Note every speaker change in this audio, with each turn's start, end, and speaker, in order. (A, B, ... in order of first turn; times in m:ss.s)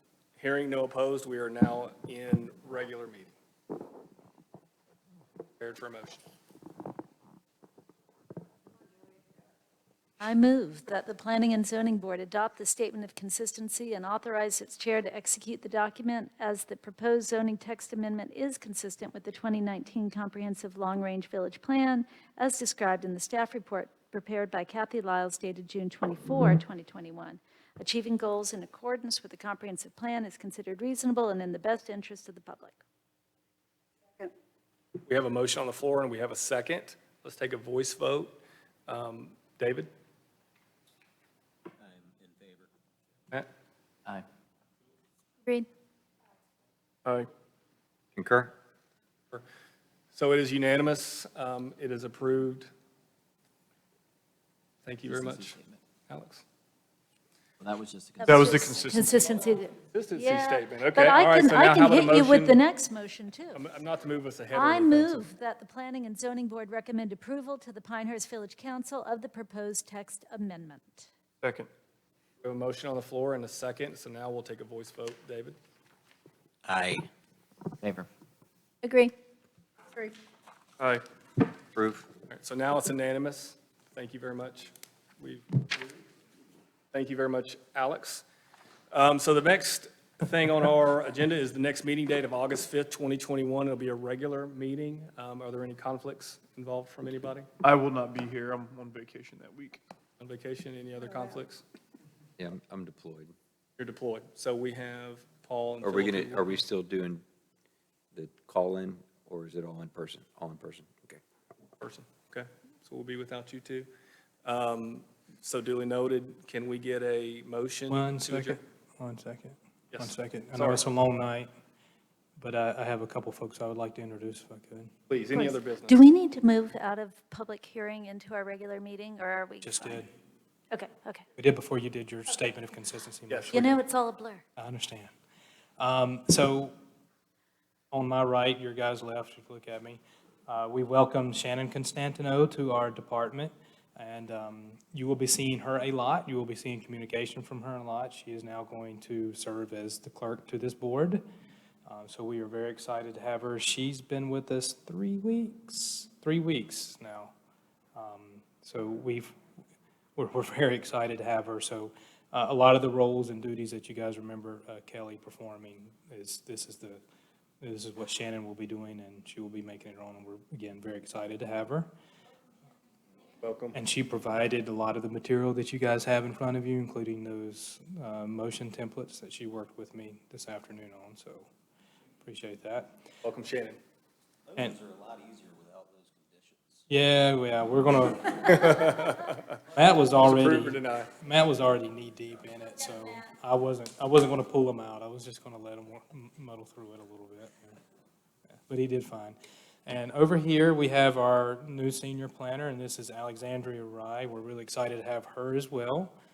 0:00.4-0:03.3 A
0:05.6-0:06.2 A
0:10.2-0:32.8 B
0:35.0-0:39.9 A
0:42.0-0:42.7 C
0:48.2-0:48.5 D
0:50.2-0:52.7 A
0:54.8-0:55.6 A
0:55.0-0:55.8 C
0:56.1-0:56.4 A
0:57.6-0:58.4 C
0:58.2-1:03.6 B
0:58.3-0:59.1 E
0:59.9-1:02.6 A
1:03.6-1:05.2 A
1:04.5-1:11.1 B
1:11.4-1:11.7 E
1:12.4-1:15.6 A
1:16.7-1:17.0 D
1:17.8-1:18.1 C
1:18.8-1:19.1 B
1:21.8-1:22.0 D
1:22.3-1:26.0 A
1:26.9-1:28.2 A
1:28.9-1:37.5 A
1:37.6-1:39.8 E
1:40.2-1:41.6 A
1:42.4-1:43.3 D
1:43.8-1:46.6 A
1:45.8-1:47.2 D
1:48.1-1:51.2 D
1:51.8-1:53.9 A
1:54.4-1:58.6 A
1:57.9-2:01.5 F
1:59.9-2:00.9 A
2:02.4-2:04.9 F
2:05.1-2:06.1 A
2:05.4-2:10.1 B
2:09.6-2:10.1 F
2:10.7-2:11.2 B
2:11.4-2:13.8 F
2:13.3-2:13.7 A
2:13.5-2:14.4 B
2:14.6-2:15.1 F
2:15.8-2:16.8 F
2:17.9-2:31.2 F
2:31.9-2:37.3 F
2:38.0-2:39.4 F
2:40.2-2:47.0 F
2:47.6-2:51.9 F
2:53.4-2:53.8 A
2:53.7-3:01.5 F
3:02.2-3:02.9 F
3:03.2-3:03.8 A
3:04.5-3:06.8 C
3:04.6-3:04.8 F
3:06.9-3:09.0 F
3:08.4-3:09.5 A
3:09.8-3:17.8 F
3:10.2-3:11.1 A
3:18.7-3:26.2 F